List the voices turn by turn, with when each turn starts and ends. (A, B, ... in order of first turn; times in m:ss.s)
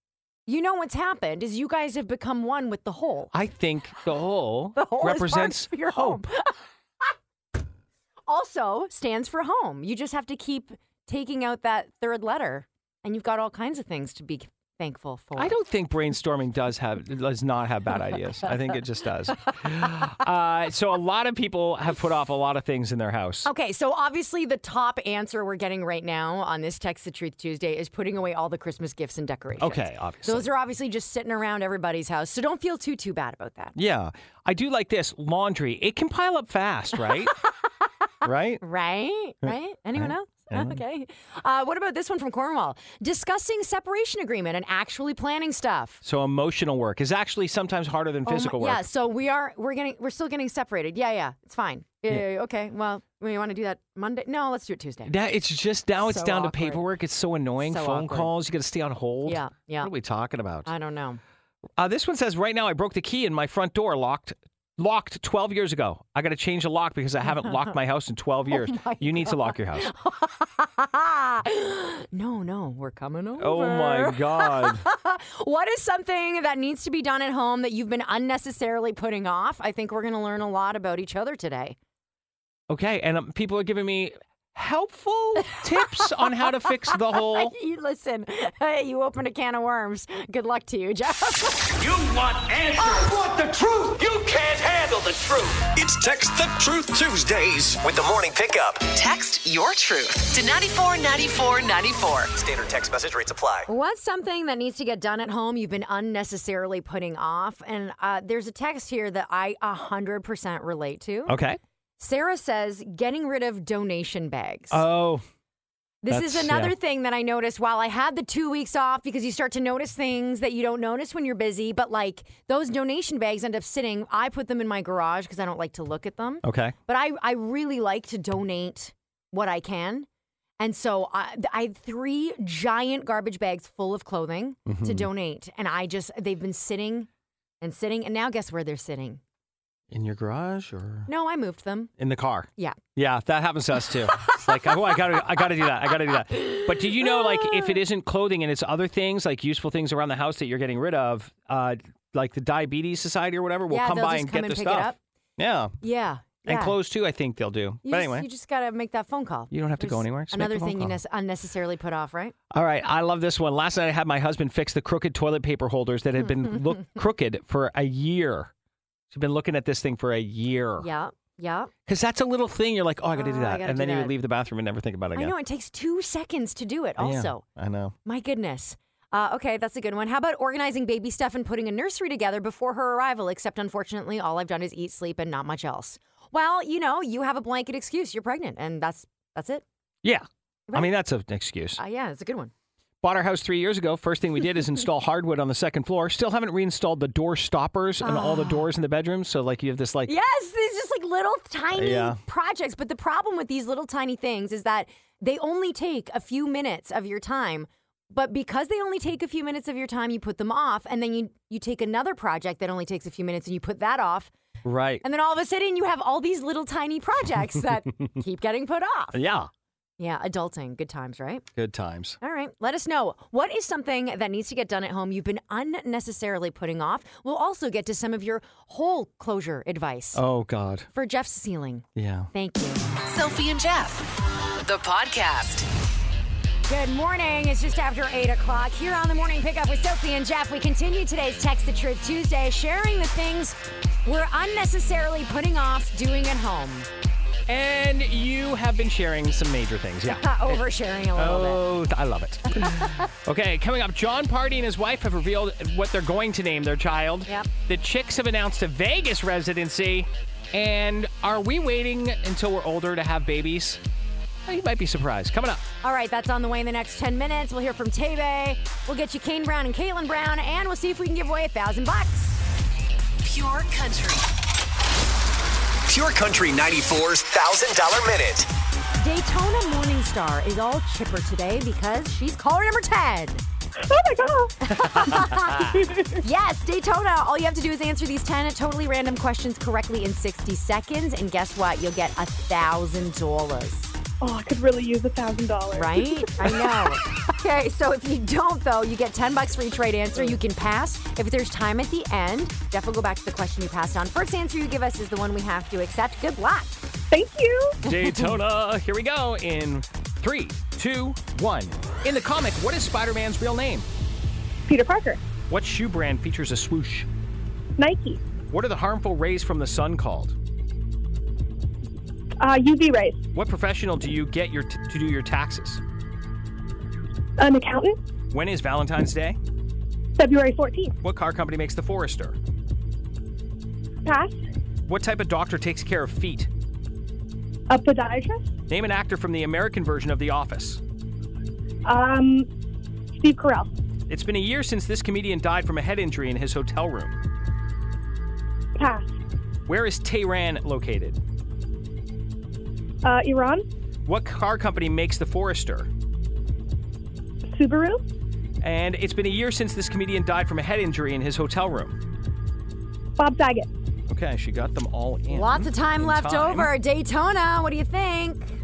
0:00.5-0:03.3 A
0:03.3-0:06.2 B
0:04.8-0:06.5 A
0:08.3-0:15.5 A
0:15.4-0:23.5 B
0:23.4-0:33.8 A
0:29.6-0:30.5 B
0:33.7-0:37.3 B
0:38.2-0:38.6 B
0:38.2-0:46.0 A
0:39.4-0:40.8 B
0:46.0-0:48.8 B
0:48.2-0:55.1 A
0:55.0-1:00.7 B
0:56.0-0:56.8 A
0:57.6-0:58.3 A
0:59.2-0:59.9 A
1:00.6-1:01.2 A
1:01.8-1:09.9 B
1:08.5-1:21.8 A
1:13.4-1:14.8 B
1:22.7-1:27.5 B
1:25.5-1:26.5 A
1:27.1-1:31.7 A
1:31.8-1:35.7 C
1:35.8-1:38.9 D
1:38.9-1:42.3 E
1:42.3-1:43.7 D
1:43.7-1:51.4 A
1:51.3-1:51.6 B
1:52.0-1:54.8 A
1:54.7-1:55.2 B
1:56.0-2:10.1 A
1:56.1-1:56.7 B
2:06.4-2:06.7 B
2:10.6-2:17.1 A
2:14.6-2:15.1 B
2:17.6-2:19.2 A
2:19.9-2:21.1 B
2:21.1-2:21.9 A
2:22.0-2:35.8 B
2:24.2-2:24.7 A
2:26.4-2:27.8 A
2:33.7-2:35.0 A
2:35.8-2:36.8 A
2:36.4-2:38.3 B
2:37.8-2:42.3 A
2:39.5-2:41.0 B
2:42.5-2:48.5 B
2:49.1-2:50.9 B
2:50.8-2:51.7 A
2:51.9-2:55.3 B
2:53.2-2:54.1 A
2:55.1-2:57.4 A
2:57.0-2:57.9 B
2:58.0-3:09.6 A
3:10.0-3:11.8 B
3:11.8-3:12.5 A
3:13.0-3:20.1 B
3:18.0-3:18.6 A
3:20.0-3:34.3 A
3:21.7-3:22.2 B
3:34.6-3:35.0 B
3:35.0-3:39.2 A
3:39.1-3:39.5 B
3:40.0-3:41.4 A
3:41.5-3:42.2 B
3:42.2-3:50.2 A
3:50.1-3:50.9 B
3:50.9-3:52.8 A
3:52.0-3:52.3 B
3:53.0-3:54.1 E
3:54.6-3:55.6 E
3:56.7-4:06.9 A
4:07.5-4:10.6 B
4:10.0-4:11.6 A
4:11.1-4:23.8 B
4:12.5-4:13.0 A
4:24.4-4:25.6 B
4:25.8-4:32.4 A
4:33.2-4:34.3 E
4:35.9-4:38.5 D
4:39.0-4:43.4 A
4:43.8-4:44.6 F
4:44.6-4:53.9 A
4:44.8-4:45.8 B
4:45.9-4:46.2 F
4:54.2-4:56.9 F
4:55.7-5:06.8 A
5:07.1-5:07.8 F
5:07.8-5:13.9 B
5:14.7-5:15.2 F
5:15.5-5:17.1 B
5:17.8-5:18.2 F
5:18.5-5:20.4 B
5:22.4-5:23.2 F
5:23.3-5:25.8 B
5:27.4-5:28.0 F
5:28.3-5:29.4 B
5:30.2-5:31.0 F
5:31.0-5:32.4 B
5:34.0-5:34.4 F
5:34.9-5:36.5 B
5:37.7-5:38.5 F
5:38.7-5:40.8 B
5:41.8-5:42.5 F
5:43.2-5:43.7 F
5:44.1-5:47.2 B
5:48.8-5:49.2 F
5:49.7-5:51.2 B
5:53.0-5:53.7 F
5:54.0-5:55.9 B
5:57.5-5:58.0 F
5:58.6-6:02.0 B
6:03.2-6:03.7 F
6:04.1-6:06.7 B
6:05.3-6:08.5 A